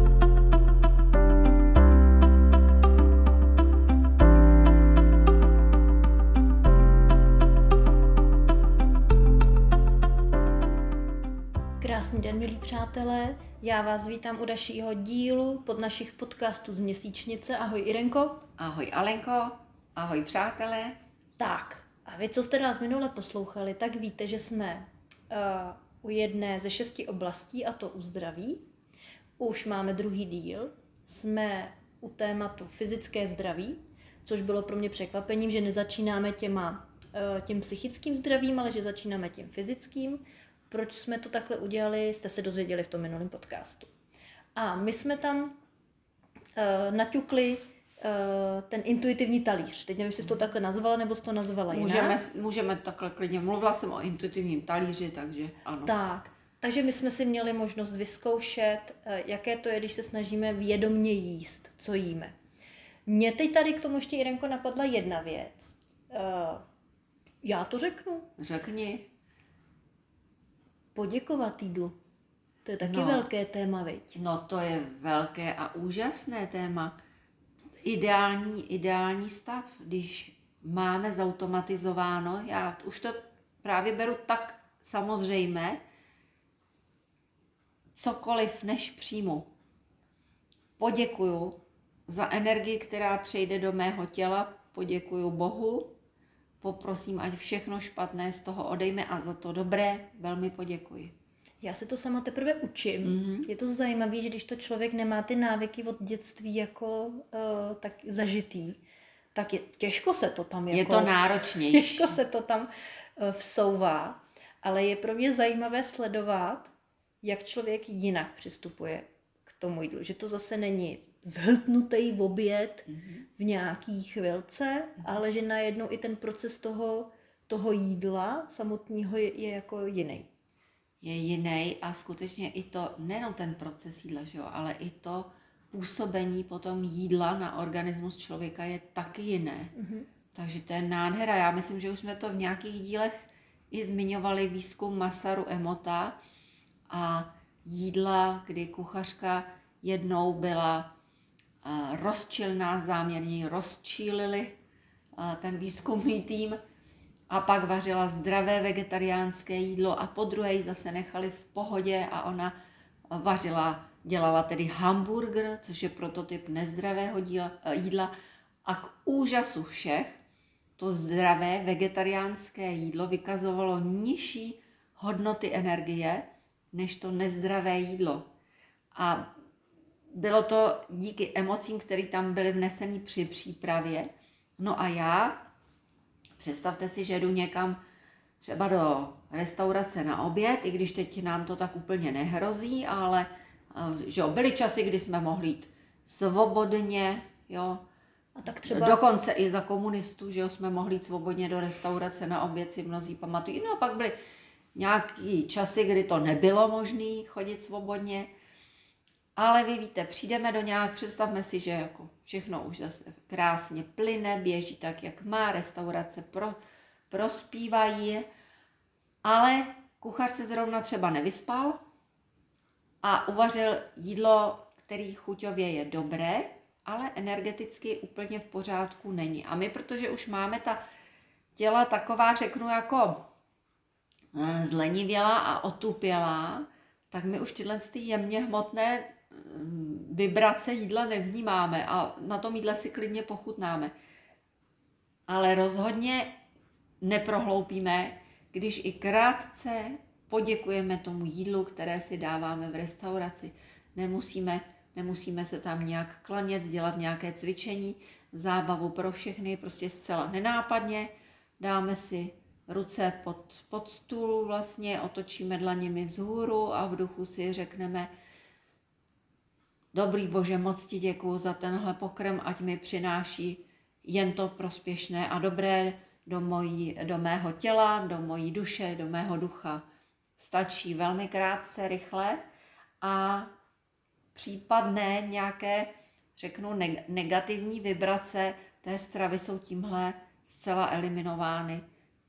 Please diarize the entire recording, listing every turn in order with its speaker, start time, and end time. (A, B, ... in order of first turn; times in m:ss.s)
0:11.8-0:18.4 A
0:18.6-0:21.0 B
0:21.4-0:28.6 A
0:29.4-0:43.9 A
0:44.6-0:45.6 A
0:46.6-0:52.2 A
0:51.7-0:55.9 B
0:55.8-1:02.3 A
1:03.0-1:06.6 A
1:07.4-1:08.3 A
1:08.4-1:09.1 B
1:10.9-1:12.0 A
1:12.6-1:14.1 A
1:12.8-1:13.2 B
1:14.1-1:16.9 B
1:17.8-1:25.8 B
1:27.9-1:29.5 B
1:30.8-1:35.9 B
1:36.6-1:41.1 B
1:41.6-1:48.8 A
1:43.0-1:43.5 B
1:49.3-2:10.3 A
1:50.7-1:52.2 B
2:02.9-2:03.2 B
2:11.0-2:19.7 B
2:19.7-2:20.0 A
2:20.3-2:26.2 B
2:26.9-2:30.9 B
2:31.6-2:34.6 B
2:35.2-2:36.6 B
2:37.3-2:42.5 B
2:43.1-2:48.1 B
2:48.6-2:50.2 B
2:50.8-2:58.3 B
2:58.9-2:59.3 B
3:00.1-3:05.4 B
3:06.4-3:07.8 B
3:08.4-3:17.8 B
3:18.4-3:19.0 A
3:18.6-3:24.1 B
3:24.7-3:28.3 B
3:29.4-3:36.6 B
3:37.1-3:38.3 B
3:39.2-3:41.8 B
3:43.0-3:50.8 B
3:51.6-3:53.3 B
3:54.3-4:03.9 B
4:05.3-4:06.3 B
4:07.0-4:28.1 B
4:29.9-4:39.8 B
4:40.4-4:42.4 B
4:43.0-4:43.5 B
4:44.3-4:51.8 B